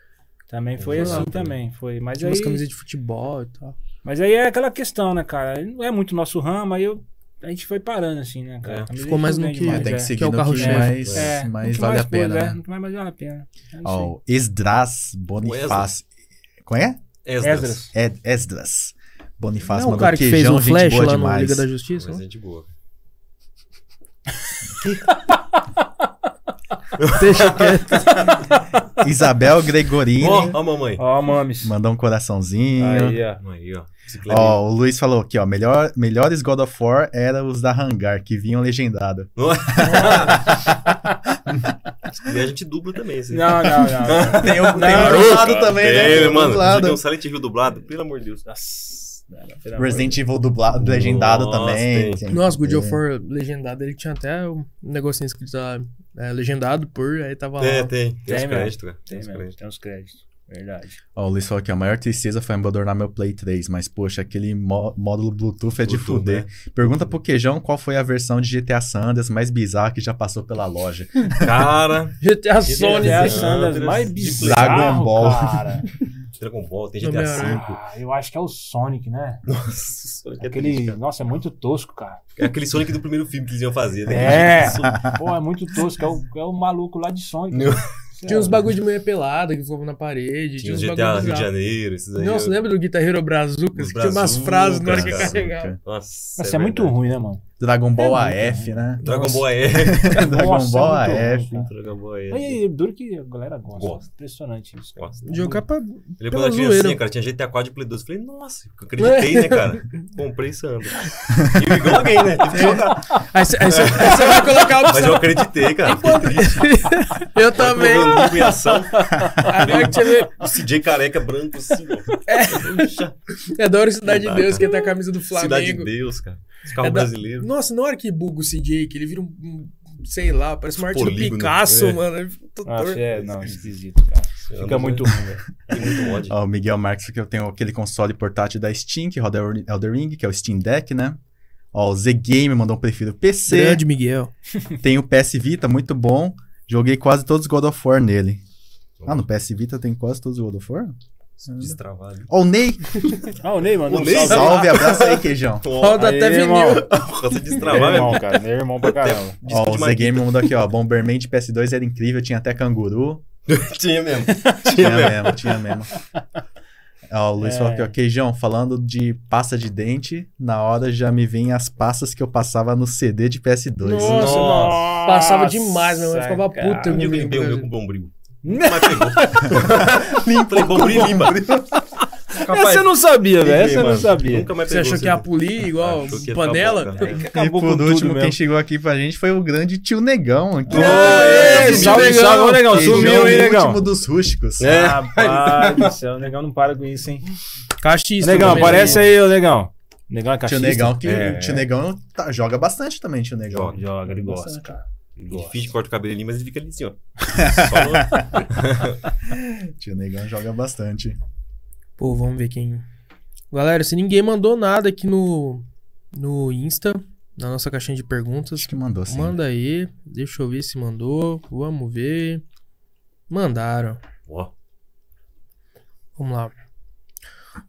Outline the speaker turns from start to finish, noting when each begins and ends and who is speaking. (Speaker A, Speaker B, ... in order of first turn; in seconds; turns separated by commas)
Speaker A: 0.5-2.6, Speaker B: 0.8-1.6, Speaker C: 2.2-3.8, Speaker A: 4.0-14.1, Speaker B: 8.6-8.9, Speaker C: 9.0-11.0, Speaker D: 9.6-12.6, Speaker B: 11.0-11.3, Speaker D: 13.8-16.0, Speaker B: 15.4-15.9, Speaker D: 16.6-17.0, Speaker B: 17.2-17.8, Speaker A: 17.4-17.9, Speaker D: 17.9-21.7, Speaker C: 19.7-22.2, Speaker B: 21.9-22.7, Speaker B: 24.8-25.1, Speaker B: 27.0-27.9, Speaker C: 27.1-28.3, Speaker A: 28.2-28.6, Speaker D: 29.0-30.6, Speaker B: 30.2-31.0, Speaker A: 30.2-31.7, Speaker D: 31.6-33.2, Speaker A: 32.8-33.4, Speaker B: 33.4-34.6, Speaker D: 34.3-40.6, Speaker B: 39.4-40.6, Speaker D: 41.5-41.7, Speaker B: 42.1-48.5, Speaker A: 43.3-46.6, Speaker D: 44.2-47.0, Speaker A: 48.4-50.2, Speaker D: 49.8-53.0, Speaker B: 50.7-52.2, Speaker C: 52.3-57.9, Speaker B: 57.6-59.5, Speaker A: 58.3-61.0, Speaker D: 61.1-71.7, Speaker B: 65.8-67.1, Speaker B: 71.4-75.0, Speaker C: 72.2-73.6, Speaker A: 72.7-75.9, Speaker D: 74.2-75.9, Speaker B: 76.4-77.8, Speaker C: 77.0-77.6, Speaker A: 77.4-79.4, Speaker B: 79.5-81.0, Speaker A: 80.4-82.2, Speaker B: 82.4-85.1, Speaker A: 84.1-88.7, Speaker D: 84.7-85.2, Speaker B: 87.5-87.9, Speaker C: 88.2-91.5, Speaker B: 90.6-92.6, Speaker C: 92.1-95.7, Speaker B: 93.7-97.0, Speaker D: 94.8-95.8, Speaker A: 96.4-97.4, Speaker D: 97.6-101.7, Speaker A: 98.0-98.8, Speaker B: 99.0-100.3, Speaker C: 99.1-99.4, Speaker A: 100.1-101.7, Speaker B: 101.6-102.6, Speaker A: 102.3-105.6, Speaker B: 103.7-104.1, Speaker B: 105.0-105.2, Speaker C: 105.2-107.0, Speaker B: 106.2-123.2, Speaker C: 109.0-109.8, Speaker D: 112.5-112.9, Speaker C: 113.1-118.8, Speaker A: 118.0-120.1, Speaker C: 119.4-120.5, Speaker C: 122.3-122.9, Speaker C: 123.5-125.9, Speaker B: 124.0-127.5, Speaker C: 126.8-133.3, Speaker B: 130.7-132.0, Speaker A: 132.7-135.9, Speaker B: 133.1-133.7, Speaker B: 134.4-136.4, Speaker D: 136.2-141.2, Speaker D: 141.7-143.8, Speaker C: 143.5-144.3, Speaker D: 144.8-148.4, Speaker B: 149.0-149.2, Speaker D: 149.1-150.9, Speaker B: 151.4-152.3, Speaker D: 151.5-153.2, Speaker A: 153.4-155.0, Speaker B: 153.8-156.2, Speaker D: 154.1-155.7, Speaker C: 155.8-156.9, Speaker A: 155.9-157.0, Speaker B: 156.8-160.6, Speaker A: 157.5-159.4, Speaker D: 157.7-158.0, Speaker D: 159.4-163.2, Speaker B: 163.5-165.6, Speaker D: 164.7-165.9, Speaker D: 167.1-174.4, Speaker A: 167.4-167.9, Speaker C: 173.8-177.7, Speaker A: 174.0-177.2, Speaker B: 174.0-174.8, Speaker B: 176.8-181.5, Speaker A: 178.4-179.9, Speaker D: 179.4-181.8, Speaker A: 182.3-184.5, Speaker B: 182.3-187.2, Speaker C: 184.6-187.2, Speaker A: 187.0-188.4, Speaker D: 187.1-194.8, Speaker B: 190.7-192.3, Speaker A: 190.7-193.8, Speaker C: 190.7-193.4, Speaker B: 194.6-195.9, Speaker A: 194.7-197.3, Speaker C: 197.8-199.1, Speaker A: 198.2-201.3, Speaker B: 198.4-199.0, Speaker D: 200.4-204.8, Speaker B: 201.0-201.7, Speaker B: 203.5-203.8, Speaker A: 203.7-205.7, Speaker B: 205.3-209.0, Speaker D: 207.3-208.3, Speaker D: 209.2-211.2, Speaker C: 212.0-212.8, Speaker C: 213.5-222.4, Speaker D: 218.6-219.4, Speaker C: 223.3-224.0, Speaker B: 224.3-224.5, Speaker C: 226.2-226.5